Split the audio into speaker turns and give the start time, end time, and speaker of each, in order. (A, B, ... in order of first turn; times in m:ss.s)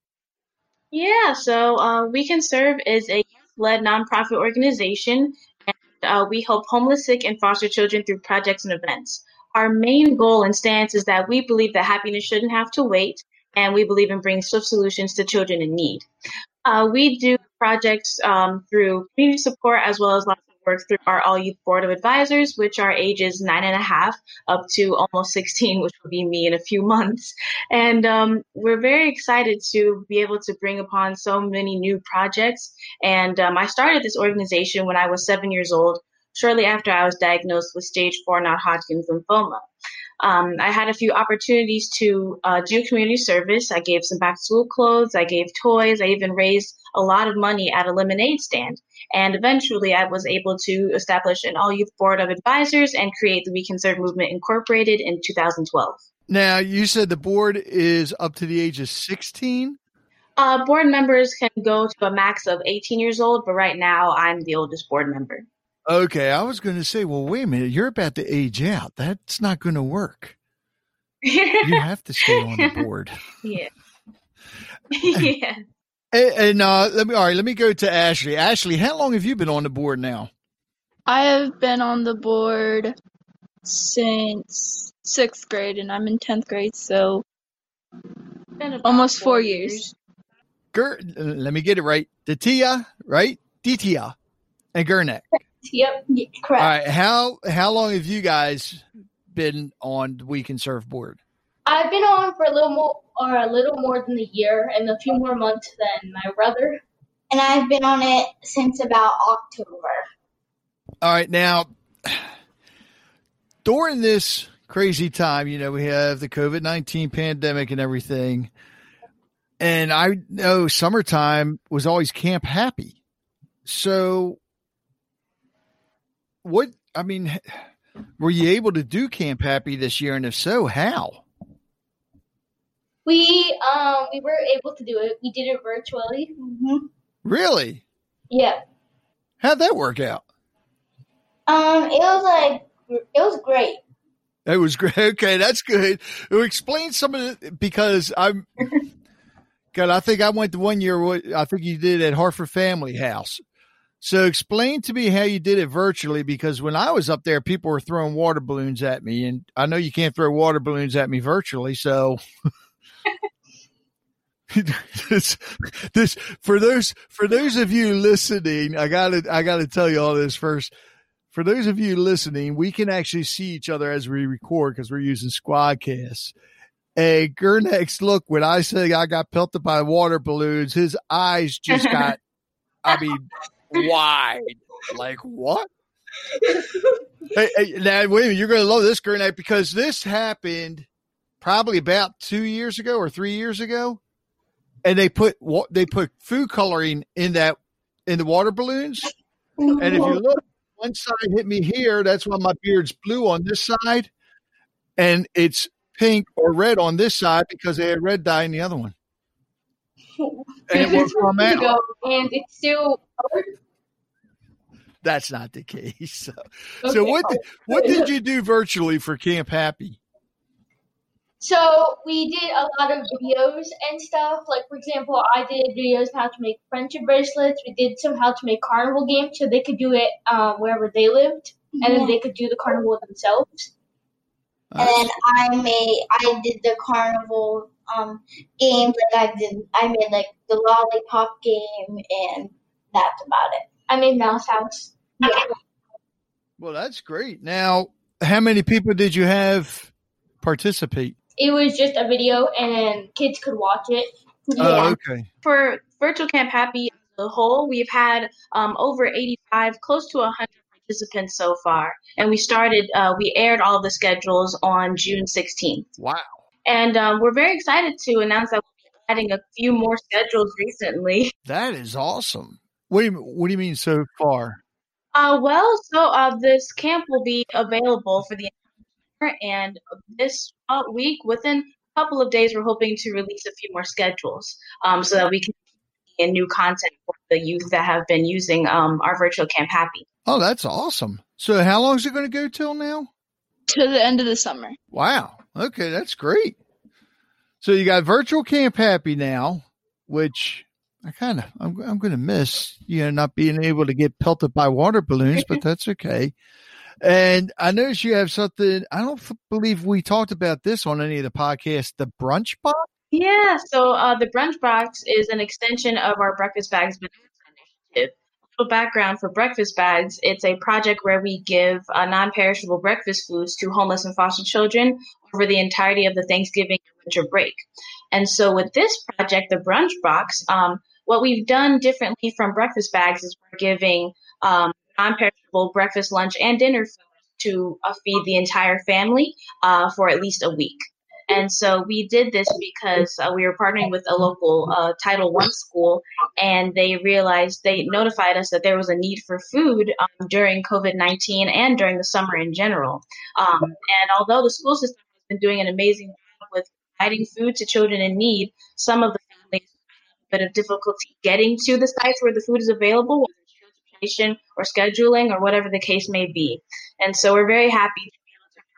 0:00.9-0:16.1 A
0:16.6-0:39.7 A
0:40.2-0:56.0 A
0:56.3-0:59.8 B
1:00.4-1:05.5 A
1:05.9-1:10.4 B
1:11.2-1:11.8 A
1:11.6-1:13.2 B
1:13.4-1:13.7 A
1:14.9-1:15.6 A
1:16.1-1:20.3 B
1:21.1-1:23.0 C
1:23.6-1:27.2 C
1:28.6-1:29.9 A
1:28.8-1:29.9 C
1:30.7-1:34.2 B
1:34.8-1:35.3 B
1:35.6-1:36.3 D
1:36.4-1:36.7 E
1:36.6-1:41.2 B
1:41.7-1:46.8 D
1:47.3-1:50.0 E
1:51.0-1:52.3 B
1:53.6-1:58.5 B
1:59.6-2:03.0 B
2:03.7-2:04.4 B
2:06.4-2:07.6 B
2:08.2-2:11.2 B
2:13.1-2:16.3 D
2:16.4-2:16.9 E
2:17.2-2:17.8 B
2:18.3-2:18.6 D
2:19.4-2:20.2 B
2:21.5-2:23.8 E
2:24.5-2:28.4 B
2:29.7-2:33.4 B
2:34.0-2:42.2 B
2:44.5-2:50.7 B
2:51.3-2:56.3 B
2:57.0-3:02.2 B
3:02.8-3:05.7 B
3:07.3-3:10.9 B
3:11.4-3:14.0 B
3:14.8-3:19.1 B
3:19.6-3:20.2 E
3:19.8-3:24.1 B
3:25.0-3:29.0 B
3:30.2-3:33.5 D
3:30.7-3:31.8 B
3:35.0-3:40.0 B
3:36.8-3:38.1 D
3:41.4-3:53.7 D
3:51.8-3:52.2 E
3:54.7-3:55.1 B
3:54.8-4:03.7 E
4:03.9-4:05.5 D
4:06.6-4:11.2 B
4:11.4-4:15.0 D
4:14.6-4:15.3 B
4:15.4-4:25.9 A
4:26.0-4:26.4 B
4:26.7-4:31.3 A
4:31.5-4:34.6 B
4:35.2-4:38.6 A
4:39.2-4:45.5 A
4:46.2-4:50.1 A
4:50.3-4:53.1 B
4:53.7-4:54.8 C
4:54.9-4:56.6 B
4:57.6-5:06.3 B
5:07.0-5:12.9 B
5:13.1-5:17.1 A
5:17.9-5:59.7 A
6:00.3-6:03.3 A
6:04.0-6:08.1 A